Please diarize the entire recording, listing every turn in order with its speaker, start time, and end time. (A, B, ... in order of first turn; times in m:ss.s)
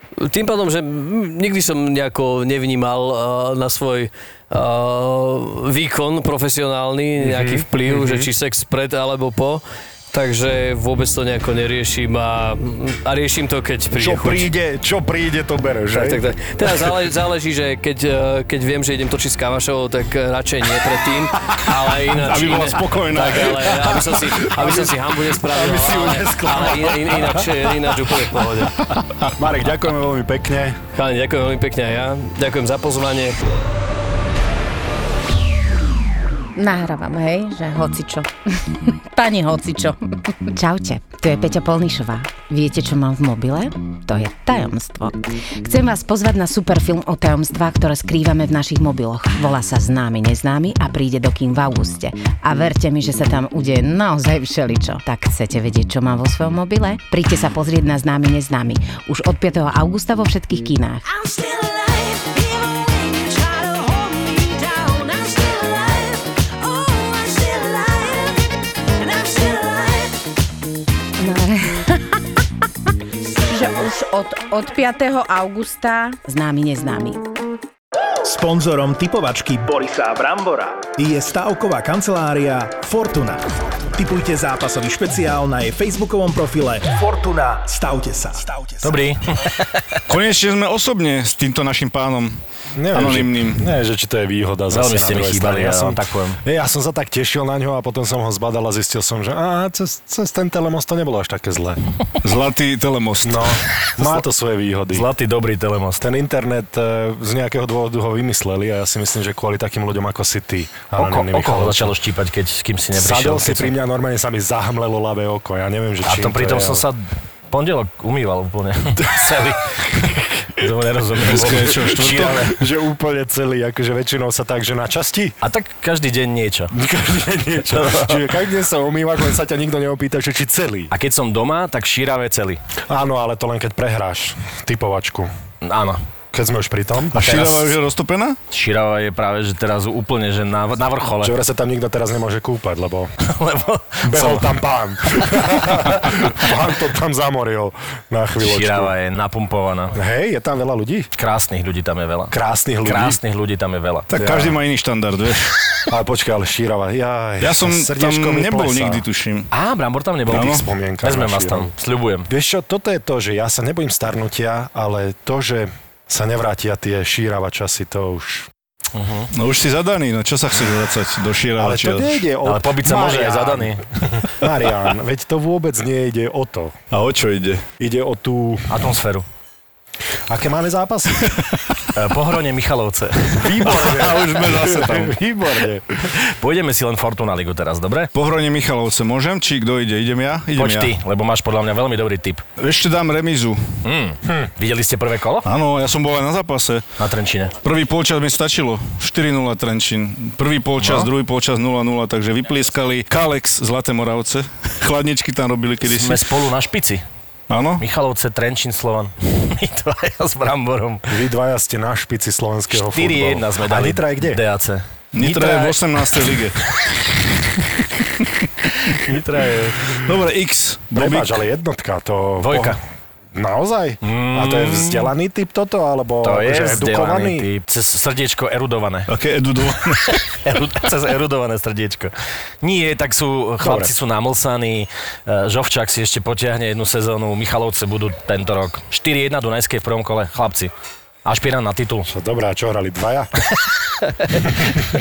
0:00.2-0:14.5 A
0:07.2-0:08.3 B
0:14.0-0:16.9 B
0:15.9-0:28.7 A
0:22.1-0:24.1 C
0:24.5-0:27.6 B
0:29.4-0:30.8 B
0:30.9-0:33.4 A
0:36.6-0:38.3 D
0:39.1-0:40.0 D
0:40.5-1:01.9 D
1:02.5-1:05.8 D
1:06.8-1:07.9 D
1:09.0-1:09.7 D
1:11.2-1:12.0 D
1:13.4-1:17.2 D
1:18.2-1:29.0 E
1:28.8-1:29.2 F
1:30.1-1:32.4 C
1:32.8-1:41.8 B
1:32.9-1:33.7 C
1:34.7-1:36.4 F
1:42.2-1:43.6 C
1:43.2-1:45.0 B
1:44.9-1:46.0 F
1:46.0-1:51.9 B
1:50.9-1:53.7 F
1:52.9-1:56.8 B
1:56.0-1:57.0 F
1:57.5-2:02.5 F
2:01.2-2:02.5 C
2:02.4-2:05.4 B
2:05.4-2:06.7 F
2:06.7-2:10.9 B
2:07.7-2:08.3 F
2:10.9-2:12.6 F
2:12.9-2:15.3 B
2:15.6-2:16.0 F
2:16.3-2:17.2 B
2:17.1-2:18.4 C
2:17.2-2:17.7 F
2:18.5-2:21.4 F
2:21.2-2:23.1 B
2:23.2-2:24.5 F
2:24.0-2:28.9 B
2:28.4-2:29.9 F
2:29.9-2:31.1 B
2:31.2-2:34.1 F
2:32.3-2:33.2 B
2:34.1-2:35.6 C
2:34.1-2:34.6 B
2:35.9-2:39.0 B
2:37.4-2:39.5 C
2:39.5-2:40.5 F
2:40.3-2:41.7 B
2:40.3-2:40.6 C
2:41.0-2:42.3 F
2:42.3-2:48.5 B
2:48.9-2:49.3 F
2:49.3-2:52.2 C
2:51.6-2:53.8 B
2:52.4-2:54.2 F
2:54.3-2:56.7 B
2:56.9-2:57.6 C
2:57.8-2:58.8 B
2:58.7-2:59.2 F
3:00.3-3:01.4 B
3:01.9-3:03.5 F
3:03.4-3:05.9 B
3:03.6-3:05.1 C
3:06.4-3:08.1 F
3:08.1-3:10.9 C
3:10.5-3:12.4 F
3:12.6-3:13.8 C
3:13.8-3:15.4 F
3:15.4-3:16.9 C
3:17.0-3:17.5 F
3:17.6-3:26.2 C
3:20.8-3:21.1 F
3:25.8-3:27.0 F
3:27.5-3:27.8 C
3:27.8-3:31.2 F
3:31.1-3:34.4 B
3:32.7-3:35.8 F
3:35.1-3:36.6 C
3:39.0-3:39.7 F
3:39.9-3:41.4 C
3:40.9-3:42.8 B
3:42.4-3:42.8 F
3:43.3-3:47.5 B
3:44.0-3:45.1 F
3:46.2-3:49.1 F
3:49.1-3:50.2 C
3:50.1-4:00.7 F
3:53.6-3:53.9 B
4:01.2-4:02.1 F
4:02.1-4:03.3 B